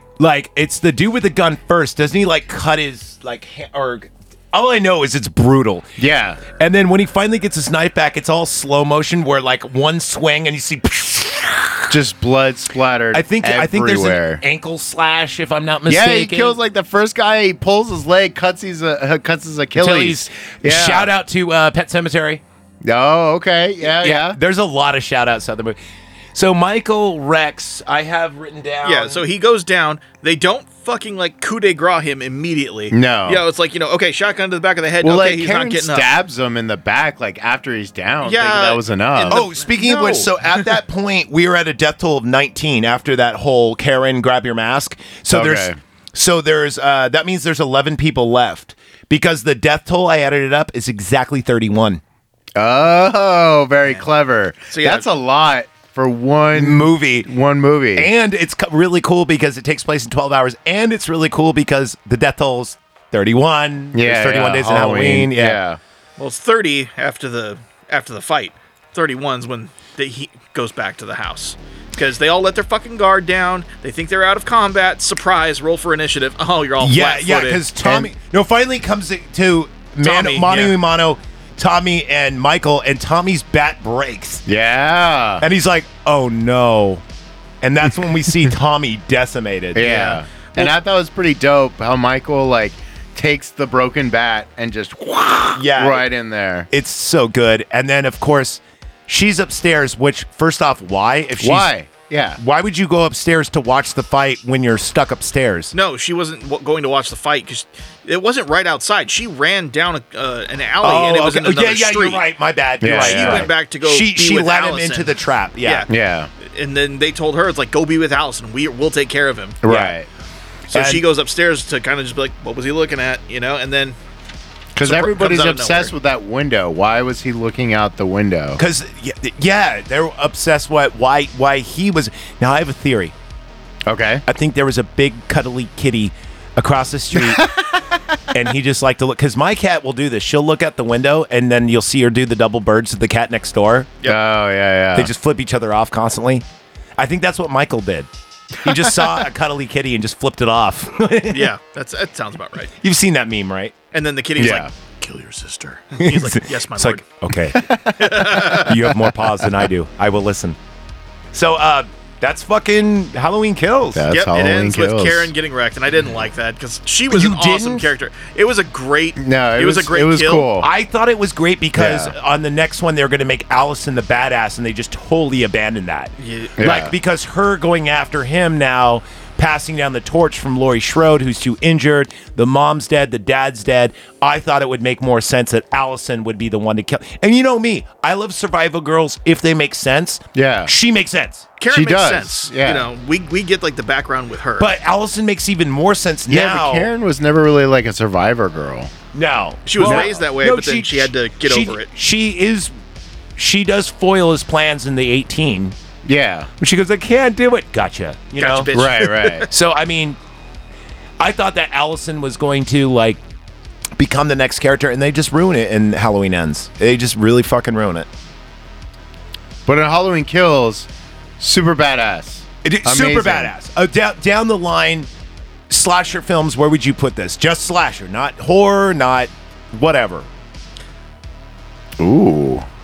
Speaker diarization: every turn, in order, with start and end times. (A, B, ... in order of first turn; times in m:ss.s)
0:00.2-0:05.9 A
0:06.0-0:06.4 B
0:06.5-0:12.0 A
0:11.9-0:14.4 B
0:13.1-0:16.6 A
0:15.9-0:21.1 B
0:19.8-0:22.4 A
0:22.8-0:24.4 B
0:23.8-0:25.8 A
0:26.3-0:29.2 A
0:28.8-0:36.1 C
0:32.9-0:33.4 B
0:35.0-0:39.4 B
0:38.2-0:40.7 C
0:39.3-0:52.0 A
0:45.3-0:45.8 B
0:52.6-0:58.1 B
0:54.7-0:55.1 C
0:56.5-0:57.3 A
0:58.0-1:05.6 A
1:03.9-1:05.8 B
1:06.2-1:17.6 C
1:16.8-1:24.4 A
1:17.8-1:18.1 B
1:20.0-1:20.8 C
1:24.4-1:25.4 B
1:25.4-1:27.0 A
1:27.6-1:30.7 A
1:29.7-1:36.7 B
1:35.6-1:36.1 A
1:36.7-1:41.7 A
1:41.4-1:42.4 B
1:42.4-1:45.7 A
1:45.7-1:52.2 C
1:50.8-1:55.9 A
1:52.8-1:53.5 B
1:52.8-1:59.6 C
1:55.9-1:56.3 B
1:59.6-2:00.1 B
1:59.6-2:00.0 A
2:00.7-2:04.0 C
2:00.7-2:01.0 A
2:04.8-2:08.6 B
2:04.8-2:05.9 C
2:08.6-2:13.1 A
2:13.8-2:14.2 B
2:14.3-2:17.5 A
2:17.2-2:17.6 B
2:18.3-2:24.0 A
2:24.0-2:25.1 B
2:24.9-2:26.4 A
2:27.0-2:28.1 A
2:28.6-2:31.5 A
2:31.3-2:32.7 C
2:32.8-2:33.7 A
2:33.9-2:37.1 C
2:34.4-2:34.7 B
2:36.0-2:37.6 A
2:37.5-2:38.1 B
2:38.0-2:38.9 C
2:38.2-2:40.6 A
2:41.3-2:44.0 A
2:43.9-2:45.3 B
2:44.1-2:50.5 C
2:47.1-2:47.9 A
2:49.2-2:50.7 B
2:50.6-3:11.5 A
2:51.8-2:52.1 B
2:56.2-2:56.8 C
2:56.6-2:56.9 B
3:10.3-3:10.7 B
3:11.6-3:14.7 C
3:11.7-3:12.9 B
3:14.6-3:16.9 A
3:16.3-3:18.9 B
3:19.1-3:22.7 A
3:19.6-3:21.9 C
3:19.8-3:20.1 B
3:23.4-3:25.8 A
3:26.0-3:26.5 B
3:26.6-3:30.2 A
3:28.4-3:29.4 C
3:28.7-3:29.5 B
3:31.2-3:33.2 A
3:34.0-3:38.1 A
3:39.6-3:40.9 B
3:41.4-3:43.5 B
3:42.6-3:45.1 A
3:45.7-3:50.3 A
3:52.0-3:52.6 B